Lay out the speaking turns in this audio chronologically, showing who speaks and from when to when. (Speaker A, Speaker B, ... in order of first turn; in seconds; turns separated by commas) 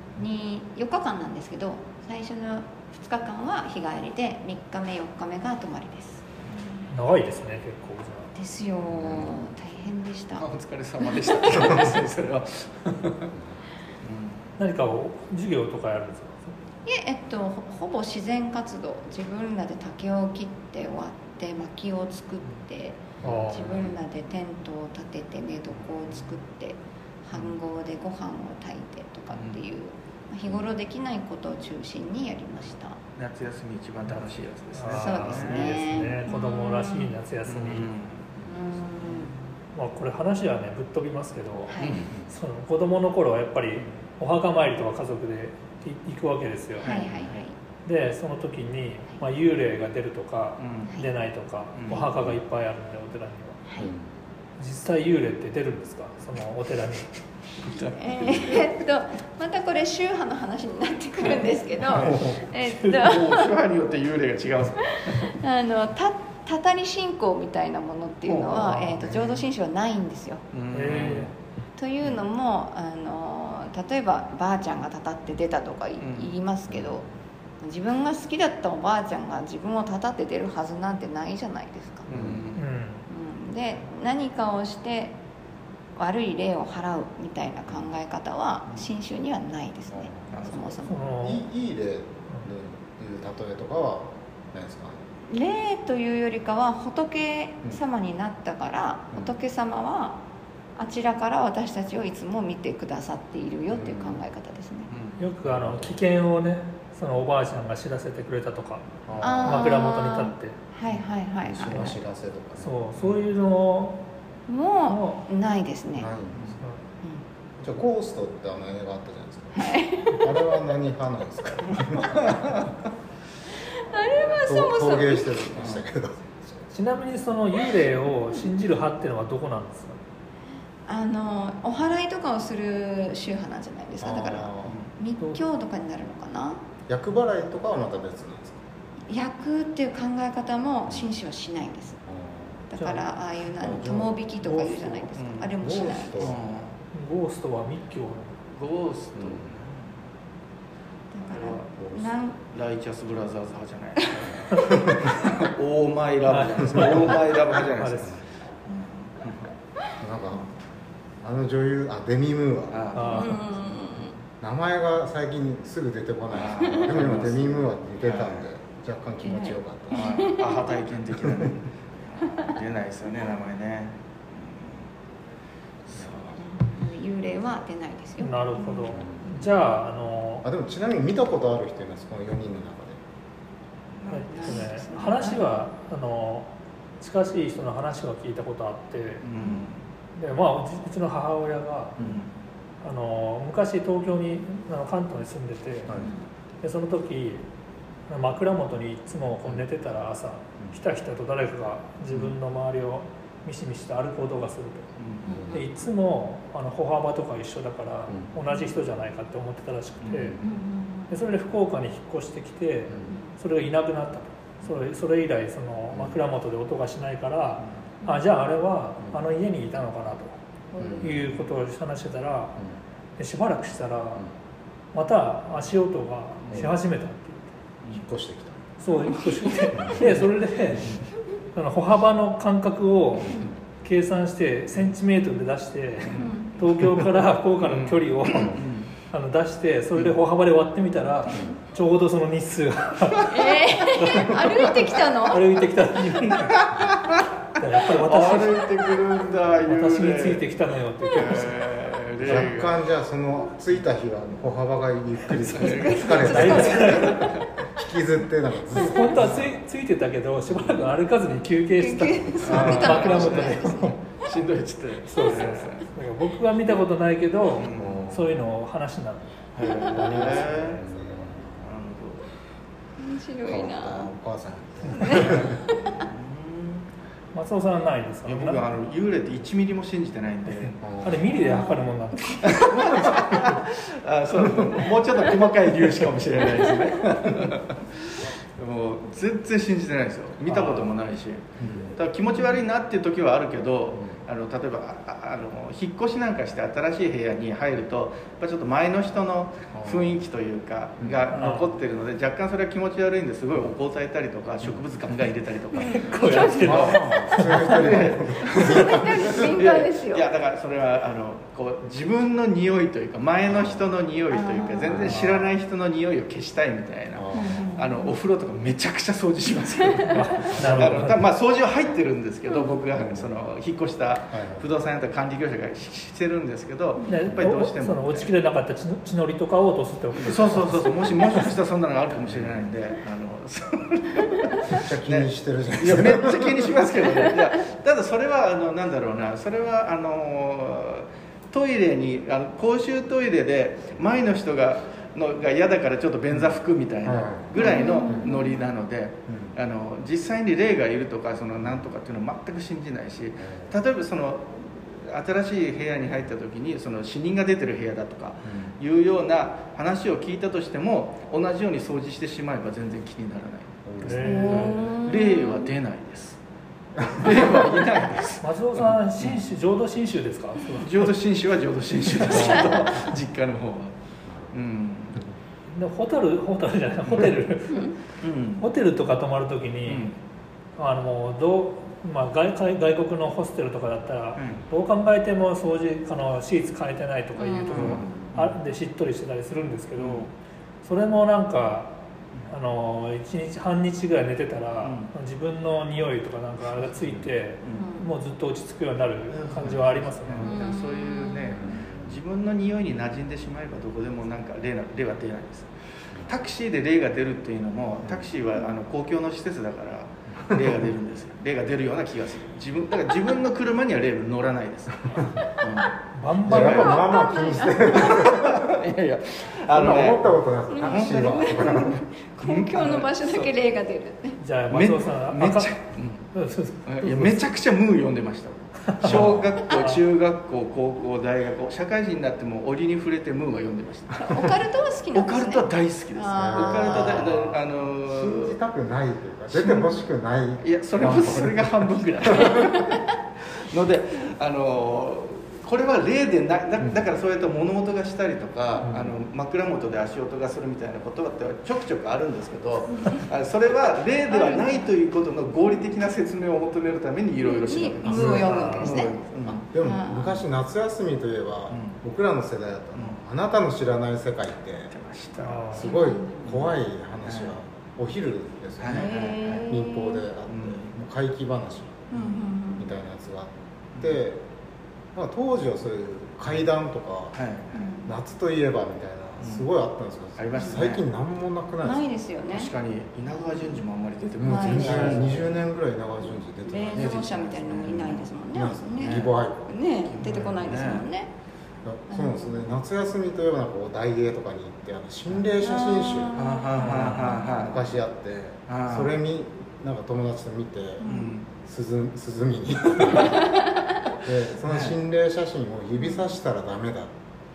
Speaker A: 0.2-6.2, Speaker B: 6.5-6.8, Speaker C: 6.9-8.3, Speaker A: 8.3-10.5, Speaker D: 8.9-9.3, Speaker B: 10.4-13.3, Speaker A: 11.0-11.9, Speaker B: 14.0-14.5, Speaker C: 14.6-16.6, Speaker A: 16.9-33.0, Speaker D: 23.2-23.9, Speaker C: 23.2-23.9, Speaker B: 29.3-29.6, Speaker B: 33.2-35.8, Speaker C: 34.7-37.9, Speaker A: 34.9-37.1, Speaker B: 37.5-38.4, Speaker A: 38.4-39.3, Speaker B: 39.0-39.4, Speaker C: 39.7-46.9, Speaker A: 41.7-42.0, Speaker B: 41.8-42.2, Speaker B: 46.8-47.4, Speaker A: 46.8-47.6, Speaker C: 47.9-53.6, Speaker B: 50.6-50.9, Speaker B: 51.8-52.1, Speaker A: 53.7-53.9, Speaker D: 53.8-54.1, Speaker C: 54.6-57.1, Speaker B: 57.6-58.7, Speaker A: 58.0-63.5, Speaker B: 61.9-62.2, Speaker B: 62.9-65.3, Speaker A: 64.8-70.4, Speaker B: 68.2-69.0, Speaker D: 68.8-69.4, Speaker B: 70.5-71.3, Speaker C: 70.7-71.3, Speaker D: 70.9-71.3, Speaker A: 71.8-77.0, Speaker B: 76.0-76.3, Speaker D: 76.7-77.0, Speaker A: 77.6-82.1, Speaker B: 82.1-82.7, Speaker D: 82.1-82.5, Speaker C: 82.6-83.1, Speaker A: 83.1-85.2, Speaker A: 86.0-91.1, Speaker B: 90.3-90.8, Speaker C: 90.9-91.5, Speaker D: 91.2-95.0, Speaker A: 95.3-100.2, Speaker A: 100.8-104.9, Speaker D: 103.7-104.2, Speaker B: 104.9-105.2, Speaker C: 105.2-108.9, Speaker D: 105.5-106.0, Speaker D: 109.1-109.7, Speaker A: 109.2-112.0, Speaker C: 109.4-110.6, Speaker D: 111.4-113.2, Speaker C: 112.6-114.0, Speaker A: 114.5-116.1, Speaker C: 114.9-115.2, Speaker D: 116.0-116.4, Speaker D: 117.6-122.4, Speaker A: 119.5-120.2, Speaker B: 121.8-122.7, Speaker A: 123.5-125.5, Speaker D: 124.4-126.7, Speaker B: 125.6-125.8, Speaker C: 126.7-130.0, Speaker A: 130.9-136.6, Speaker D: 134.0-134.8, Speaker B: 134.7-134.9, Speaker D: 136.9-138.6, Speaker A: 139.1-142.0, Speaker D: 142.1-142.7, Speaker A: 142.7-146.3, Speaker C: 142.8-143.1, Speaker D: 143.6-145.0, Speaker B: 145.1-145.6, Speaker D: 145.6-146.4, Speaker B: 146.2-146.8, Speaker C: 146.9-148.4, Speaker B: 148.5-149.9, Speaker D: 149.2-149.5, Speaker A: 151.1-152.4, Speaker B: 151.2-151.7, Speaker D: 151.8-152.1, Speaker B: 152.5-159.5, Speaker D: 154.5-155.0, Speaker C: 156.3-158.2, Speaker D: 160.0-160.5, Speaker D: 161.2-170.2, Speaker B: 162.7-163.4, Speaker C: 162.9-163.4, Speaker A: 163.1-164.1, Speaker B: 166.3-168.5, Speaker A: 169.2-170.7, Speaker B: 169.9-174.8, Speaker D: 171.3-171.5, Speaker B: 175.9-176.4, Speaker A: 176.4-179.0, Speaker C: 178.2-180.4, Speaker D: 178.9-179.4, Speaker D: 180.4-183.0, Speaker C: 184.1-186.5, Speaker A: 184.1-185.6, Speaker C: 187.0-189.2, Speaker B: 189.2-189.8, Speaker C: 190.2-192.0, Speaker B: 192.0-192.3, Speaker C: 192.8-196.0, Speaker A: 196.0-196.2, Speaker C: 196.6-197.4, Speaker C: 198.1-204.9, Speaker B: 205.0-205.4, Speaker A: 205.2-205.7, Speaker D: 205.3-205.6, Speaker C: 205.5-210.4, Speaker B: 210.0-210.4, Speaker A: 210.4-211.1, Speaker C: 211.1-220.4, Speaker D: 212.9-213.2, Speaker D: 215.9-216.2, Speaker A: 220.7-221.2, Speaker D: 220.8-221.2, Speaker C: 221.0-222.6, Speaker C: 223.2-224.2, Speaker C: 224.9-227.5, Speaker D: 227.9-228.6, Speaker C: 228.8-231.0, Speaker D: 229.8-230.1, Speaker C: 231.6-246.7, Speaker A: 236.1-236.5, Speaker B: 237.6-238.9, Speaker D: 238.3-238.6, Speaker D: 241.3-241.6, Speaker A: 243.2-245.7, Speaker B: 246.5-247.2, Speaker C: 247.6-248.7, Speaker B: 247.9-250.4, Speaker C: 249.7-251.6, Speaker B: 251.2-252.8, Speaker D: 252.2-259.5, Speaker B: 255.4-257.5, Speaker A: 255.6-257.2, Speaker C: 256.3-257.3, Speaker C: 258.7-264.0, Speaker D: 260.5-260.8, Speaker A: 261.8-263.9, Speaker B: 262.4-265.8, Speaker D: 262.5-263.1, Speaker C: 265.1-269.3, Speaker B: 267.6-268.0, Speaker D: 267.7-268.3, Speaker B: 269.6-270.9, Speaker A: 269.6-270.2, Speaker D: 269.6-271.6, Speaker B: 271.6-272.2, Speaker A: 273.0-274.1, Speaker D: 273.5-275.6, Speaker A: 275.0-276.0, Speaker B: 275.1-276.9, Speaker C: 277.3-278.6, Speaker B: 278.3-280.8, Speaker D: 280.8-281.3, Speaker C: 281.0-282.7, Speaker A: 281.3-282.7, Speaker B: 282.4-328.3, Speaker C: 290.5-290.9, Speaker D: 291.6-292.0, Speaker D: 299.7-300.2, Speaker C: 301.3-301.7, Speaker A: 305.7-307.2, Speaker C: 305.9-307.9, Speaker D: 306.6-309.4, Speaker A: 308.5-310.3, Speaker D: 313.5-313.8, Speaker A: 314.3-315.1, Speaker D: 314.9-315.3, Speaker C: 315.1-315.4, Speaker D: 317.1-317.9, Speaker A: 317.3-317.9, Speaker A: 320.0-320.2, Speaker C: 320.1-321.2, Speaker D: 320.5-321.1, Speaker D: 322.9-323.3, Speaker D: 324.3-324.6, Speaker C: 327.1-330.8, Speaker B: 330.2-366.4, Speaker D: 334.7-336.8, Speaker D: 347.0-348.1, Speaker A: 347.6-348.7, Speaker D: 349.3-349.6, Speaker D: 353.4-353.7, Speaker D: 358.4-358.8, Speaker D: 363.9-364.3, Speaker C: 364.0-364.8, Speaker A: 364.1-365.7, Speaker B: 367.1-369.4, Speaker C: 368.4-371.0, Speaker B: 370.8-373.9, Speaker C: 372.2-372.6, Speaker D: 372.3-372.9, Speaker A: 372.4-372.9, Speaker D: 374.3-374.5, Speaker B: 374.5-375.2, Speaker C: 375.7-378.0, Speaker B: 378.2-378.6, Speaker C: 378.6-380.1, Speaker B: 379.9-380.1, Speaker C: 380.8-390.3, Speaker B: 384.4-384.6, Speaker A: 387.4-388.0, Speaker B: 387.7-388.5, Speaker D: 387.8-388.0, Speaker B: 390.0-390.3, Speaker C: 390.8-391.9, Speaker C: 392.5-400.7, Speaker B: 394.8-395.1, Speaker D: 397.0-397.3, Speaker B: 397.6-397.9, Speaker A: 397.7-398.1, Speaker B: 399.3-415.9, Speaker A: 400.4-401.7, Speaker D: 401.6-402.2, Speaker C: 416.1-417.0, Speaker D: 416.5-418.7, Speaker B: 416.5-417.0, Speaker A: 416.5-418.4, Speaker B: 417.9-423.5, Speaker D: 419.7-422.0, Speaker A: 420.7-424.4, Speaker C: 424.4-425.8, Speaker B: 424.7-426.3, Speaker C: 426.3-427.4, Speaker B: 426.9-434.6, Speaker C: 428.9-430.0, Speaker D: 429.1-429.6, Speaker A: 434.2-437.3, Speaker B: 435.1-438.6, Speaker D: 436.4-437.5, Speaker D: 438.1-442.7, Speaker B: 439.5-439.9, Speaker B: 440.6-459.6, Speaker A: 442.5-443.1, Speaker D: 448.8-449.1, Speaker A: 454.3-454.9, Speaker A: 457.5-459.2, Speaker D: 458.0-458.5, Speaker C: 458.1-459.1, Speaker D: 459.4-464.9, Speaker A: 459.8-460.4, Speaker B: 461.7-462.0, Speaker B: 464.9-465.9, Speaker C: 465.4-465.9, Speaker D: 465.7-472.0, Speaker A: 465.8-466.7, Speaker B: 467.2-467.5, Speaker B: 468.8-469.6, Speaker A: 468.9-470.2, Speaker B: 470.5-470.9, Speaker B: 472.1-472.5, Speaker A: 472.1-472.9, Speaker D: 472.8-474.4, Speaker D: 475.1-477.4, Speaker B: 477.4-477.9, Speaker A: 477.8-478.1, Speaker D: 478.1-482.0, Speaker B: 480.4-481.1, Speaker A: 481.8-482.7, Speaker B: 482.5-485.6, Speaker A: 483.3-483.8, Speaker D: 484.4-489.6, Speaker A: 484.4-485.4, Speaker A: 486.6-491.3, Speaker B: 486.9-488.3, Speaker B: 489.0-489.3, Speaker B: 490.1-491.1, Speaker D: 490.2-490.7, Speaker D: 491.9-503.5, Speaker A: 492.1-492.6, Speaker A: 495.6-497.4, Speaker B: 496.4-497.9, Speaker B: 498.7-499.1, Speaker A: 501.0-501.3, Speaker B: 501.0-501.5, Speaker A: 503.2-503.6, Speaker D: 504.2-507.1, Speaker B: 504.7-504.9